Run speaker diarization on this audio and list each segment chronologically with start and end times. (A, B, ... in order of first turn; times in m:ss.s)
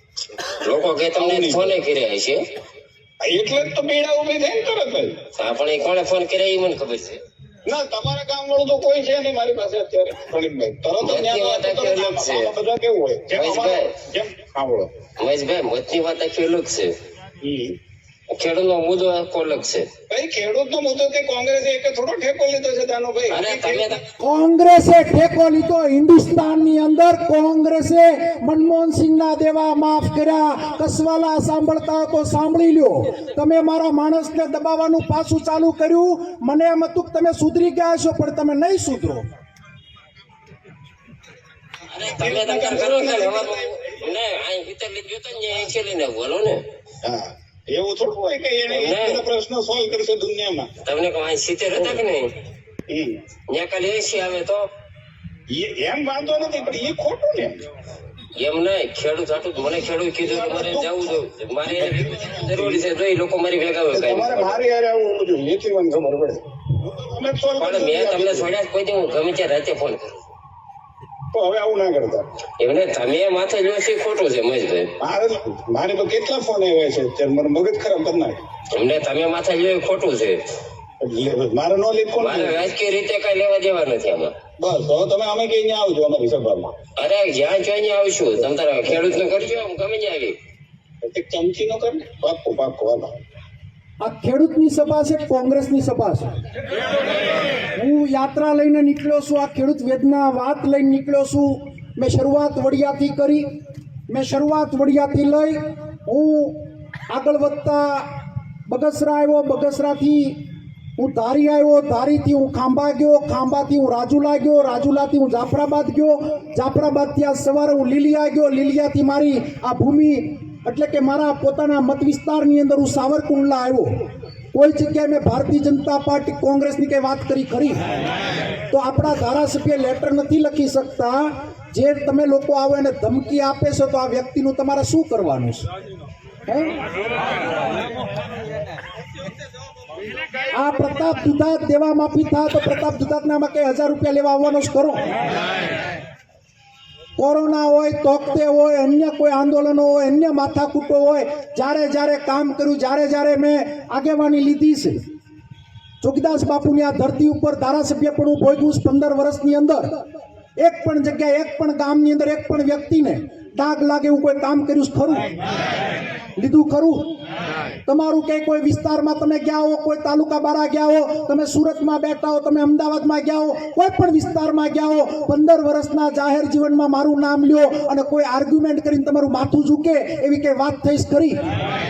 0:00.4-0:02.4 A
0:01.2-0:01.8 B
0:03.2-0:05.2 B
0:05.4-0:07.2 A
0:07.6-0:14.9 B
0:11.0-0:12.5 A
0:13.3-0:13.9 A
0:15.2-0:16.9 A
0:17.4-0:17.8 B
0:18.3-0:19.9 A
0:20.1-0:24.0 B
0:23.3-0:24.0 A
0:24.2-0:39.2 C
0:41.9-0:46.6 A
0:42.0-0:43.9 B
0:47.0-0:50.7 B
0:48.7-0:49.2 A
0:50.8-0:52.3 A
0:52.9-0:53.2 B
0:53.5-0:54.7 A
0:55.5-0:57.6 B
0:58.4-1:04.6 A
0:59.6-1:02.8 B
1:03.9-1:08.5 B
1:07.6-1:10.3 A
1:11.3-1:12.2 B
1:12.6-1:14.9 A
1:15.0-1:18.4 B
1:18.7-1:20.4 A
1:21.0-1:22.7 B
1:22.2-1:24.3 A
1:24.6-1:26.7 B
1:27.0-1:30.4 A
1:31.0-1:33.1 B
1:34.0-1:36.3 C
1:37.7-1:43.4 C
1:44.1-1:48.1 C
1:48.7-1:50.4 C
1:51.0-2:07.9 C
2:08.7-2:15.7 C
2:16.5-2:16.7 C
2:20.5-2:25.1 C
2:27.2-2:35.0 C
2:36.0-2:40.0 C
2:40.6-2:45.3 C
2:46.4-2:47.1 C
2:47.9-3:01.5 C